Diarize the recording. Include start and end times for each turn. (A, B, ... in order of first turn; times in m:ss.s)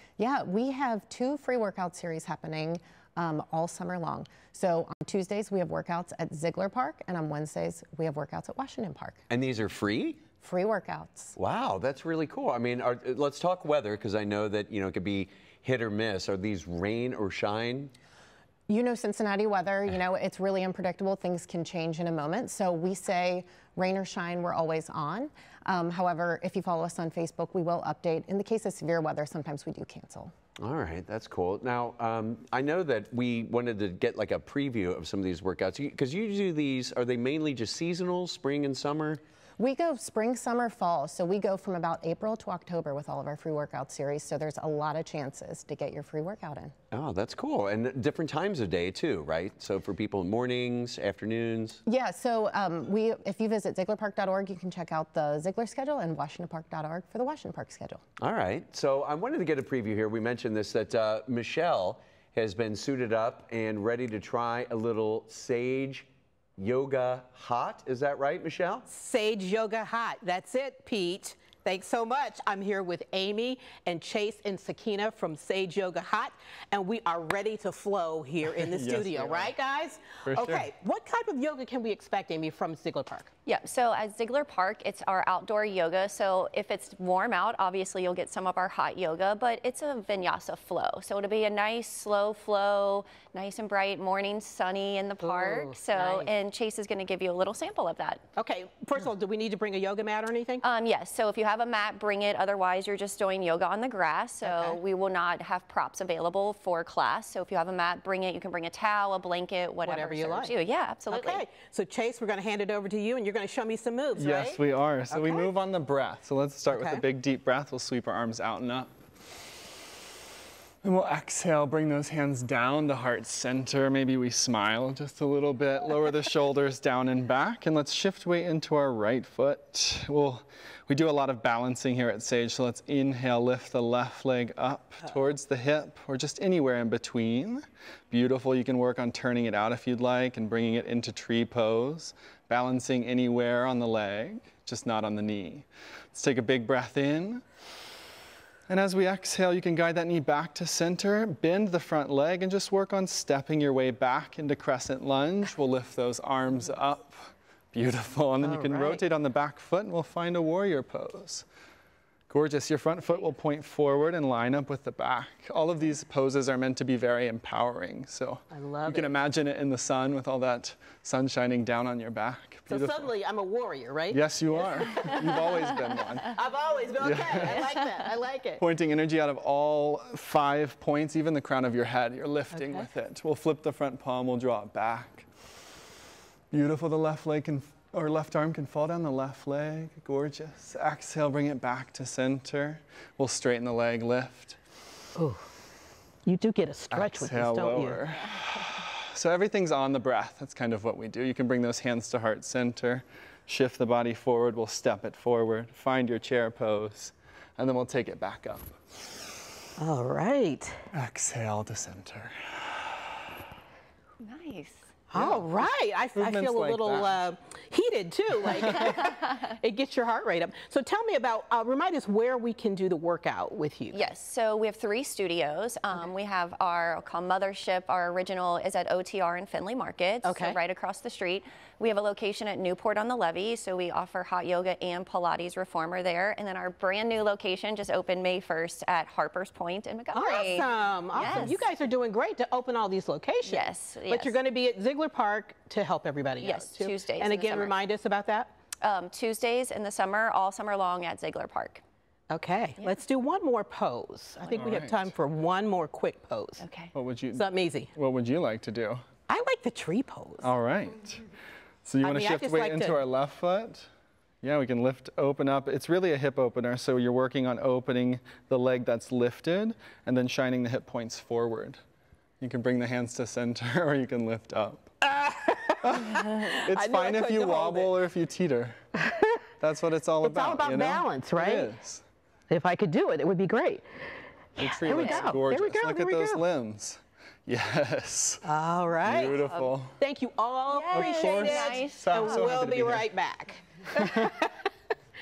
0:00.2-0:09.2 A
0:09.3-0:10.2 B
0:10.4-0:11.4 A
0:11.4-0:17.9 B
0:18.7-0:30.3 A
0:30.6-0:39.2 B
0:39.6-0:46.7 A
0:46.9-0:51.8 B
0:51.9-0:58.0 A
0:58.2-1:08.9 B
1:08.9-1:23.3 C
1:18.5-1:19.6 D
1:20.2-1:20.7 D
1:23.5-1:38.2 E
1:35.2-1:36.3 C
1:38.4-1:40.6 C
1:40.6-1:51.4 E
1:44.4-1:44.8 C
1:49.8-1:50.6 C
1:51.1-1:55.5 C
1:54.2-1:58.9 D
1:56.7-1:57.0 C
2:00.8-2:27.4 D
2:28.7-2:41.4 D
2:38.4-2:39.0 C
2:42.3-2:53.1 D
2:48.5-2:49.2 C
2:52.7-2:55.6 C
2:54.1-2:56.4 D
2:56.2-2:58.6 C
2:57.0-2:57.6 D
2:58.6-3:05.3 D
3:02.5-3:02.8 C
3:06.5-3:14.6 D
3:15.2-3:15.5 C
3:16.3-3:18.0 C
3:16.9-3:29.1 D
3:29.8-3:30.8 C
3:30.9-3:33.1 D
3:34.2-3:34.9 E
3:35.1-3:44.0 C
3:35.2-3:35.5 D
3:36.2-3:37.2 D
3:43.9-4:01.7 E
3:50.2-3:50.6 C
4:00.1-4:08.5 C
4:03.4-4:04.4 E
4:06.4-4:07.8 E
4:08.8-4:11.8 E
4:12.3-4:16.7 C
4:14.6-4:15.1 D
4:16.6-4:16.9 E
4:16.9-4:19.0 D
4:17.3-4:17.9 C
4:19.3-4:20.5 C
4:20.4-4:21.3 D
4:21.9-4:23.9 D
4:22.0-4:23.0 C
4:24.4-4:31.8 D
4:32.4-4:34.9 D
4:35.0-4:38.0 C
4:35.8-4:38.8 D
4:39.0-4:39.4 C
4:39.6-4:42.0 D
4:40.2-4:41.7 C
4:42.5-4:43.8 C
4:44.6-4:48.4 D
4:44.6-4:46.4 C
4:44.9-4:45.3 E
4:48.4-4:54.7 C
4:49.0-4:50.0 D
4:50.7-4:52.5 E
4:50.9-4:53.1 D